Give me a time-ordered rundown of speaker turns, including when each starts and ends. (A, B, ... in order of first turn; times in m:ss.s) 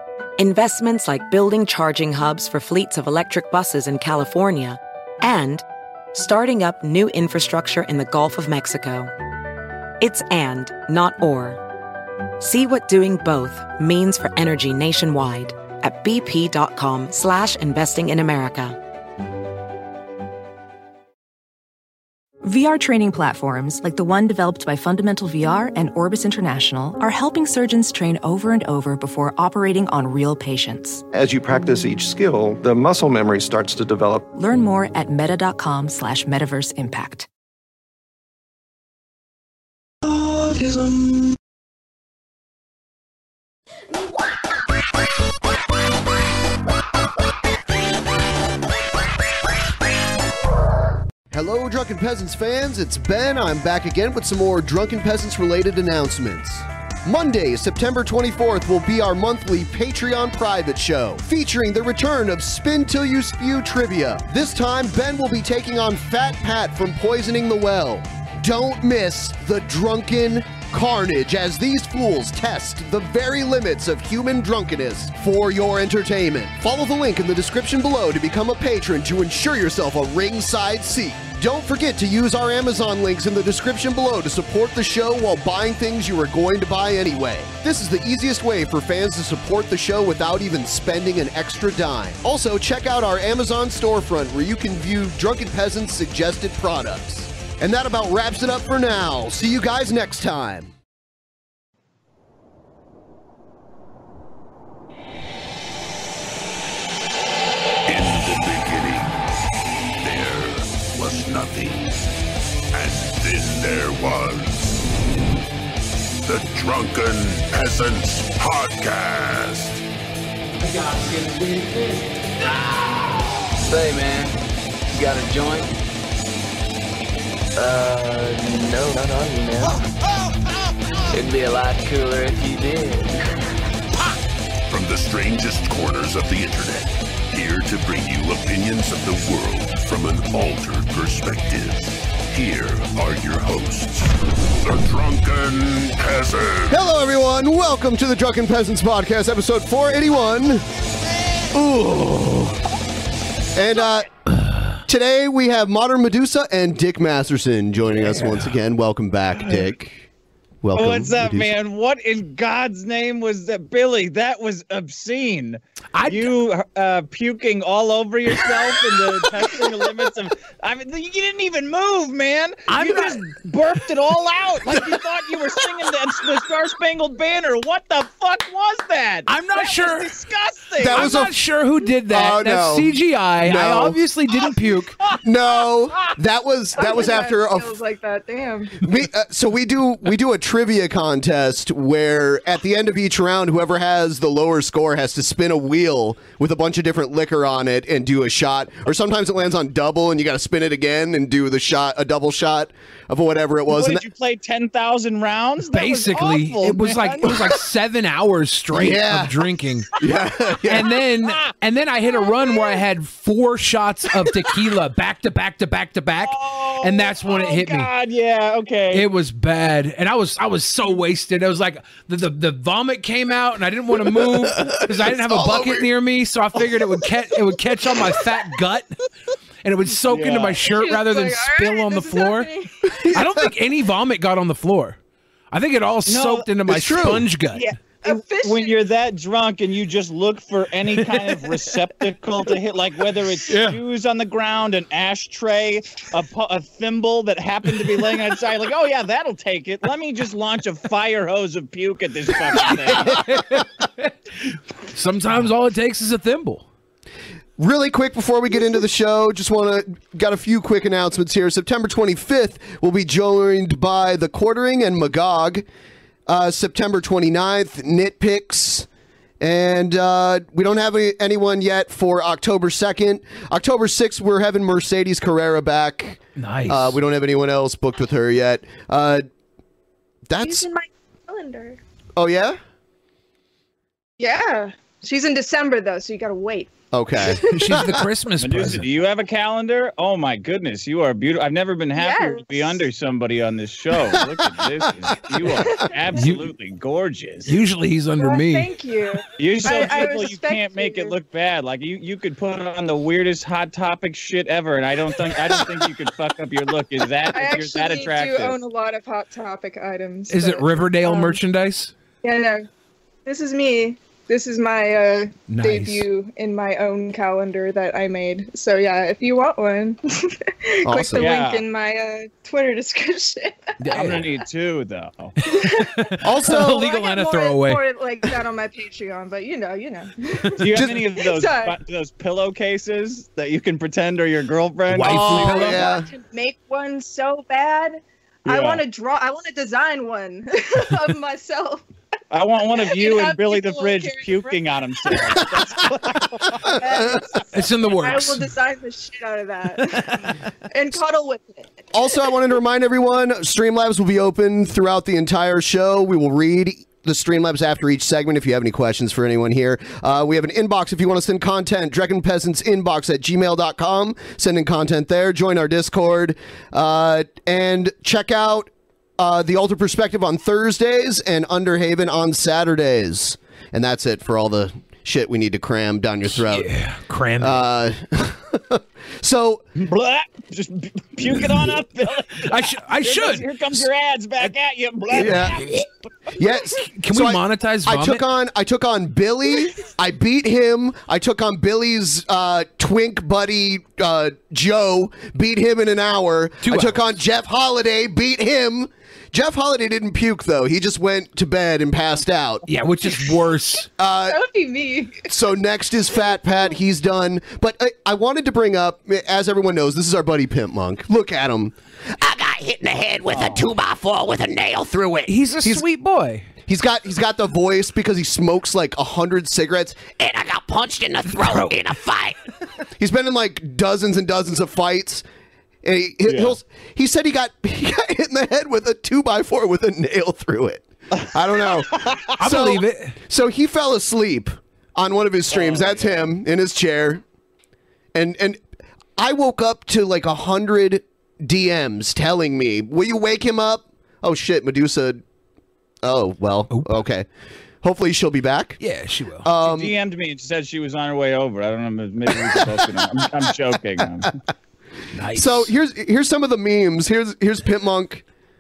0:00.4-0:09.1 A
0:10.0-0:11.6 A
0:12.4-0:18.8 A
0:22.4-0:31.0 B
0:31.1-0:34.3 C
0:34.3-0:37.3 B
0:51.3-1:40.7 D
1:47.9-1:49.2 E
1:50.0-1:52.0 E
1:52.7-1:54.9 E
1:56.2-1:59.8 E
2:00.6-2:04.4 F
2:04.9-2:05.7 F
2:07.6-2:09.8 F
2:11.1-2:13.2 F
2:14.7-2:26.8 E
2:26.7-2:30.6 D
2:31.5-2:32.6 D
2:33.6-2:34.1 D
2:34.9-2:40.1 D
2:38.1-2:38.4 G
2:40.6-2:41.5 D
2:40.8-3:01.2 H
2:45.9-2:46.3 G
2:52.7-2:53.3 G
2:59.3-3:00.1 G
3:00.8-3:01.3 D
3:00.9-3:05.0 G
3:02.1-3:02.9 D
3:03.4-3:04.0 D
3:05.2-3:07.8 D
3:06.8-3:08.8 I
3:08.8-3:24.0 D
3:23.7-3:27.3 H
3:25.7-3:29.9 G
3:28.7-3:29.3 D
3:30.0-3:30.9 D
3:30.7-3:37.9 G
3:36.2-3:39.1 H
3:38.9-3:48.9 G
3:44.2-3:45.9 D
3:49.6-3:52.5 G
3:50.1-3:50.6 H
3:50.7-3:52.8 I
3:52.9-3:53.5 D
3:53.1-3:55.0 G
3:55.5-3:57.7 G
3:56.1-3:56.5 H
3:56.7-3:57.3 D
3:57.6-4:13.2 H
3:58.0-3:58.8 I
4:03.5-4:03.8 G
4:12.6-4:14.1 G
4:14.9-4:16.7 G
4:17.6-4:25.6 D
4:26.3-4:28.9 D
4:29.4-4:39.2 D
4:36.4-4:37.0 G
4:40.3-4:40.7 D
4:40.4-4:41.8 I
4:42.2-4:42.6 D
4:44.2-4:46.7 I
4:46.9-4:47.4 D
4:47.4-4:47.9 I
4:47.5-4:48.9 G
4:48.4-4:57.5 H
4:52.0-4:52.8 I
4:55.6-4:56.2 I
4:56.2-4:56.5 G
4:57.5-4:58.7 G
4:58.2-5:01.2 I
4:59.4-5:08.6 H
5:07.3-5:11.4 I
5:10.3-5:11.9 G
5:12.2-5:12.7 I
5:13.3-5:23.7 I
5:15.5-5:16.1 G
5:20.9-5:21.3 D
5:21.2-5:21.6 H
5:23.8-5:24.3 G
5:23.9-5:25.4 H
5:25.5-5:25.9 I
5:25.5-5:27.8 G
5:26.2-5:26.8 D
5:26.5-5:31.8 I
5:30.6-5:35.8 H
5:34.9-5:36.1 D
5:34.9-5:35.8 G
5:35.6-5:41.8 I
5:38.5-5:38.8 H
5:42.3-5:46.7 H
5:42.8-5:45.1 I
5:46.6-5:51.8 I
5:46.8-5:47.2 D
5:47.5-5:48.5 G
5:49.9-5:50.2 G
5:51.9-6:16.7 D
6:16.3-6:17.6 G
6:17.4-6:19.6 D
6:19.8-6:25.8 H
6:22.4-6:23.5 G
6:25.1-6:25.6 D
6:26.4-6:42.6 D
6:27.0-6:28.2 G
6:36.6-6:37.1 G
6:42.7-6:43.9 G
6:44.0-6:44.4 D
6:44.3-6:45.2 I
6:45.3-6:55.8 D
6:53.3-6:53.7 H
6:55.3-6:56.5 G
6:56.7-7:02.4 D
7:01.3-7:01.8 G
7:03.0-7:05.2 D
7:05.8-7:17.2 D
7:06.3-7:06.6 H
7:12.4-7:13.2 G
7:15.5-7:16.3 H
7:18.1-7:18.6 D
7:19.2-7:25.2 D
7:26.0-7:27.3 D
7:26.7-7:27.0 G
7:27.8-7:28.8 D
7:28.8-7:29.5 G
7:29.4-7:29.9 D
7:29.6-7:34.4 H
7:35.1-7:35.7 G
7:35.4-7:38.2 D